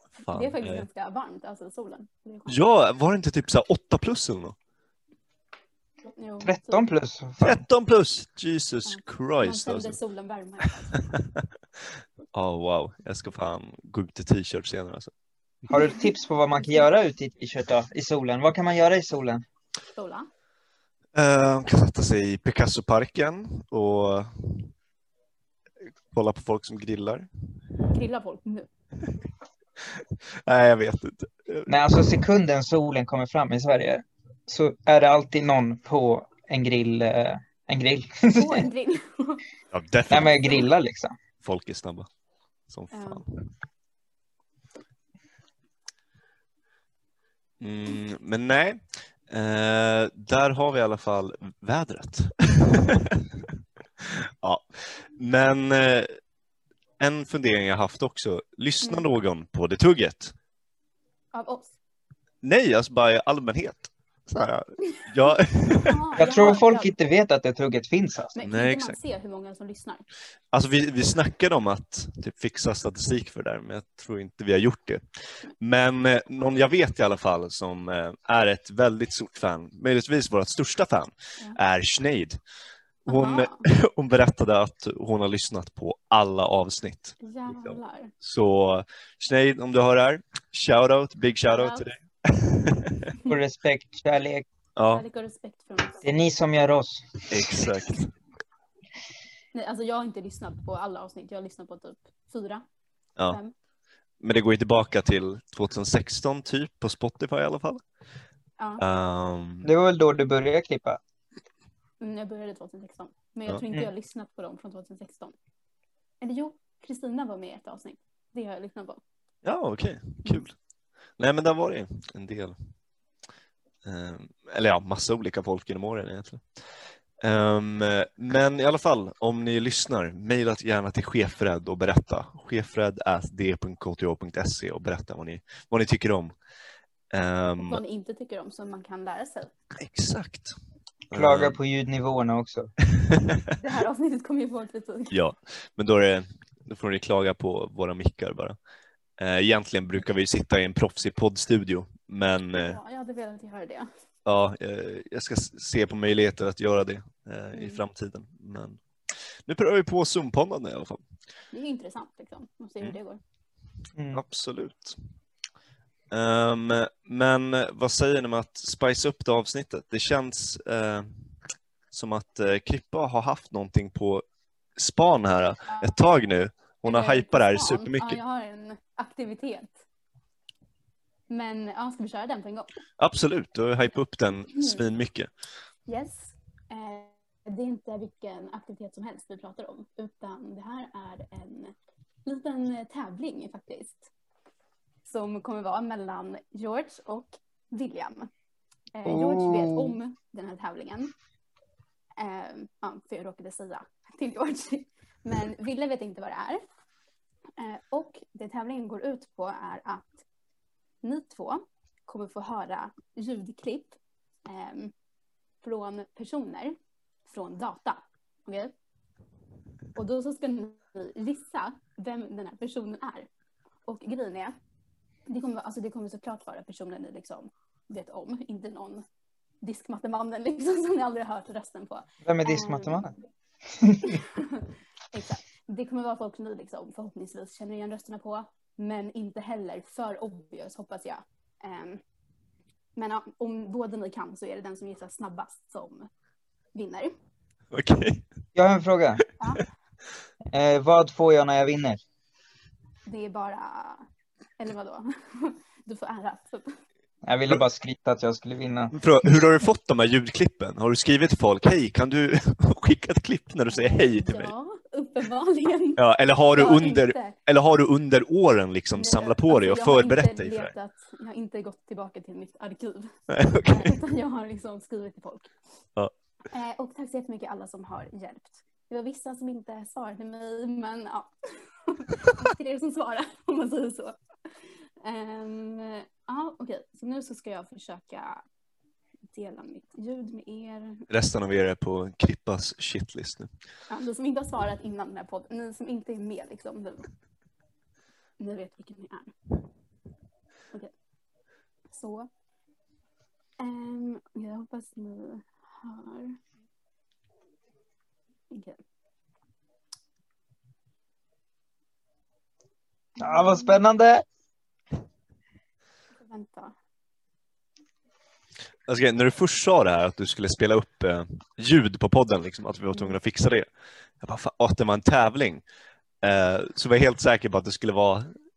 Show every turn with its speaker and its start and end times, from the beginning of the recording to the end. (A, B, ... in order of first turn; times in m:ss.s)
0:00.2-0:00.8 A
0:00.3-0:02.6 B
0:02.5-0:04.6 A
0:06.1-0:06.8 B
0:06.4-0:07.6 C
0:07.4-0:10.0 A
0:08.9-0:11.0 B
0:11.0-0:11.4 A
0:12.3-0:15.1 A
0:15.7-0:19.4 C
0:15.7-0:16.0 B
0:20.0-0:20.3 B
0:21.2-0:24.7 A
0:26.1-0:27.3 A
0:27.9-0:28.7 B
0:30.5-0:32.1 A
0:31.7-0:38.6 C
0:38.4-0:39.4 B
0:39.7-0:40.6 A
0:40.1-0:41.1 C
0:41.4-0:42.1 A
0:42.7-0:43.5 A
0:42.9-0:43.2 B
0:47.6-0:53.2 A
0:54.0-0:54.6 A
0:55.2-0:56.1 A
0:57.0-1:00.3 A
1:01.3-1:01.8 B
1:02.4-1:06.0 A
1:05.8-1:06.9 B
1:06.2-1:08.4 C
1:08.4-1:10.0 B
1:08.5-1:09.0 A
1:10.5-1:15.0 A
1:15.6-1:22.4 A
1:23.1-1:23.6 B
1:23.1-1:33.1 A
1:27.2-1:28.1 B
1:31.5-1:31.9 B
1:33.3-1:34.5 C
1:34.8-1:35.0 A
1:34.9-1:36.1 B
1:36.0-1:37.3 C
1:37.3-1:38.1 A
1:39.5-1:42.6 B
1:44.2-1:47.8 A
1:48.6-1:48.8 B
1:48.8-1:49.7 A
1:49.6-1:51.0 C
1:52.0-1:55.4 B
1:56.2-1:59.0 B
1:59.4-2:00.5 A
2:01.2-2:02.6 A
2:03.8-2:06.4 A
2:07.2-2:16.3 A
2:17.1-2:17.8 A
2:17.6-2:19.5 B
2:19.8-2:20.6 A
2:21.1-2:21.6 A
2:21.1-2:22.7 C
2:23.0-2:23.4 A
2:23.6-2:25.1 B
2:25.1-2:28.6 A
2:29.2-2:32.8 A
2:32.6-2:33.9 B
2:34.3-2:38.8 A
2:37.6-2:37.8 B
2:39.5-2:41.0 A
2:41.5-2:43.2 B
2:44.0-2:44.2 C
2:44.1-2:45.0 A
2:46.1-2:51.1 A
2:51.9-2:54.2 A
2:54.8-2:58.2 A
2:55.7-2:56.0 B
2:56.8-2:59.8 B
3:01.3-3:02.7 B
3:03.0-3:05.3 A
3:04.6-3:04.9 B
3:05.9-3:11.7 B
3:12.3-3:14.1 B
3:15.0-3:18.3 B
3:19.0-3:21.1 B
3:19.1-3:20.0 C
3:22.2-3:26.6 B
3:27.6-3:30.2 B
3:31.0-3:34.9 B
3:35.6-3:38.7 B
3:40.0-3:43.3 B
3:43.9-3:44.6 B
3:45.3-3:49.0 B
3:49.6-3:53.1 B
3:52.2-3:53.2 C
3:53.7-3:54.0 C
3:54.0-4:02.0 B
4:03.0-4:06.1 B
4:06.7-4:07.1 B
4:07.7-4:08.2 A
4:08.6-4:09.2 C
4:09.4-4:09.7 B
4:10.5-4:12.0 C
4:13.1-4:14.0 B
4:14.6-4:16.8 B
4:17.2-4:19.0 C
4:18.9-4:24.5 A
4:23.7-4:26.0 B
4:26.0-4:30.7 A
4:26.6-4:27.4 B
4:29.0-4:33.1 B
4:33.3-4:34.0 A
4:33.7-4:35.5 B
4:36.5-4:44.2 B
4:45.0-4:48.4 B
4:49.3-4:51.0 B
4:51.1-4:53.5 A
4:53.9-4:57.1 B
4:58.4-4:59.3 B
5:01.9-5:02.3 B
5:03.6-5:06.4 B
5:08.5-5:08.8 B
5:13.2-5:13.8 B
5:13.2-5:14.2 C
5:16.2-5:16.8 B
5:18.9-5:23.7 A
5:24.2-5:25.6 A
5:26.2-5:28.3 A